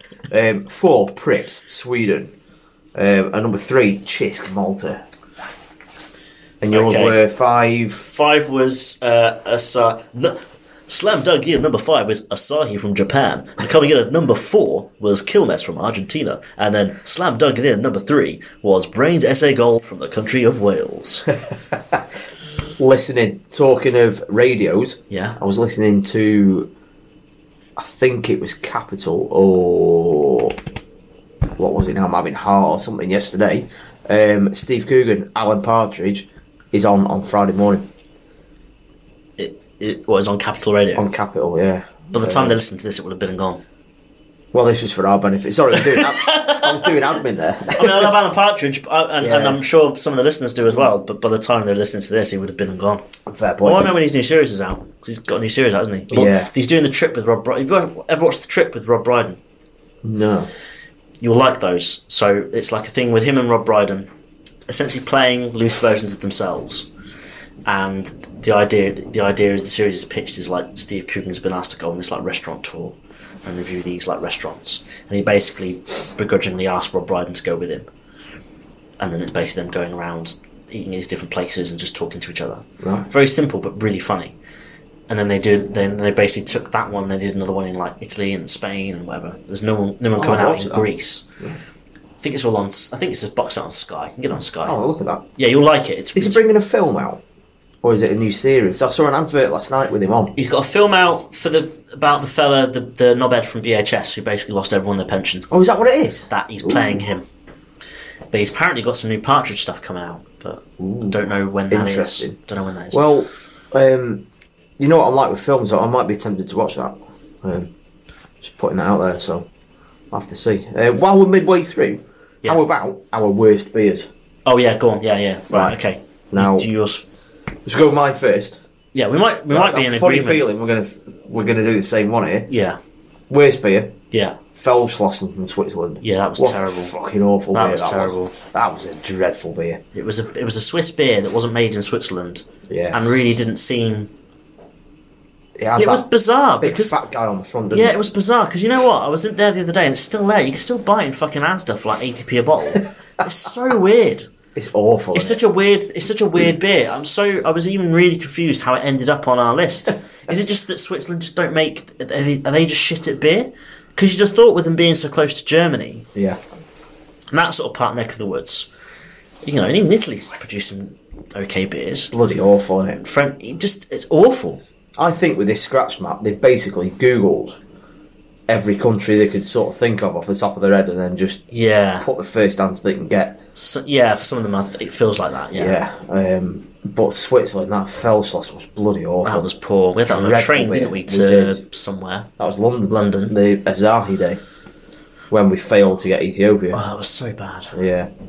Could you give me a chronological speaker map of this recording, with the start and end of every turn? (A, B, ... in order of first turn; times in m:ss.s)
0:00.3-0:02.3 A
0:02.9-0:05.0 A
0:06.6-0:08.1 A
0:06.7-0:07.2 B
0:08.0-0:21.3 B
0:22.8-0:26.7 A
0:25.1-0:25.4 B
0:27.8-0:30.6 A
0:31.6-0:37.9 A
0:39.4-0:41.1 B
0:40.9-0:42.6 A
0:42.1-0:43.6 B
0:44.5-0:48.2 A
0:45.7-0:47.0 B
0:47.7-0:53.0 B
0:49.2-0:49.6 A
0:53.3-0:53.9 A
0:53.6-0:59.4 B
0:56.1-0:56.5 A
1:00.0-1:00.5 A
1:01.2-1:04.1 B
1:04.7-1:06.9 B
1:07.6-1:17.9 B
1:19.0-1:24.4 B
1:22.8-1:23.1 A
1:25.1-1:31.2 B
1:30.2-1:30.9 A
1:32.2-1:34.8 B
1:34.6-1:35.2 A
1:35.4-1:36.4 B
1:36.1-1:37.2 A
1:37.8-1:40.3 A
1:40.4-1:45.5 B
1:45.5-1:47.0 A
1:46.3-1:47.3 B
1:48.3-1:53.0 B
1:50.8-1:51.2 A
1:51.7-1:52.4 A
1:52.9-1:54.2 A
1:54.8-1:57.7 A
1:58.4-1:59.5 A
2:00.1-2:04.1 A
2:04.4-2:07.0 B
2:05.5-2:05.8 A
2:06.3-2:06.7 A
2:07.6-2:08.6 A
2:08.9-2:10.4 B
2:09.5-2:12.5 A
2:12.5-2:12.8 B
2:13.3-2:14.0 A
2:14.1-2:14.4 B
2:14.5-2:19.8 A
2:16.0-2:16.9 B
2:17.5-2:18.3 B
2:19.9-2:24.1 B
2:22.7-2:23.1 A
2:25.6-2:26.1 A
2:25.8-2:27.0 B
2:26.6-2:28.0 A
2:27.7-2:34.3 B
2:34.5-2:35.4 A
2:35.1-2:46.1 B
2:46.1-2:46.4 A
2:47.3-2:48.7 B
2:49.4-2:52.1 B
2:52.1-2:53.0 A
2:53.0-2:54.6 B
2:55.0-2:57.6 A
2:58.5-3:01.4 A
3:01.5-3:02.1 B
3:02.0-3:03.4 A
3:03.5-3:05.8 B
3:05.5-3:09.5 A
3:09.2-3:12.3 B
3:10.0-3:11.6 A
3:12.4-3:14.4 A
3:12.9-3:13.3 B
3:15.3-3:16.8 A
3:16.7-3:17.8 B
3:17.7-3:18.1 A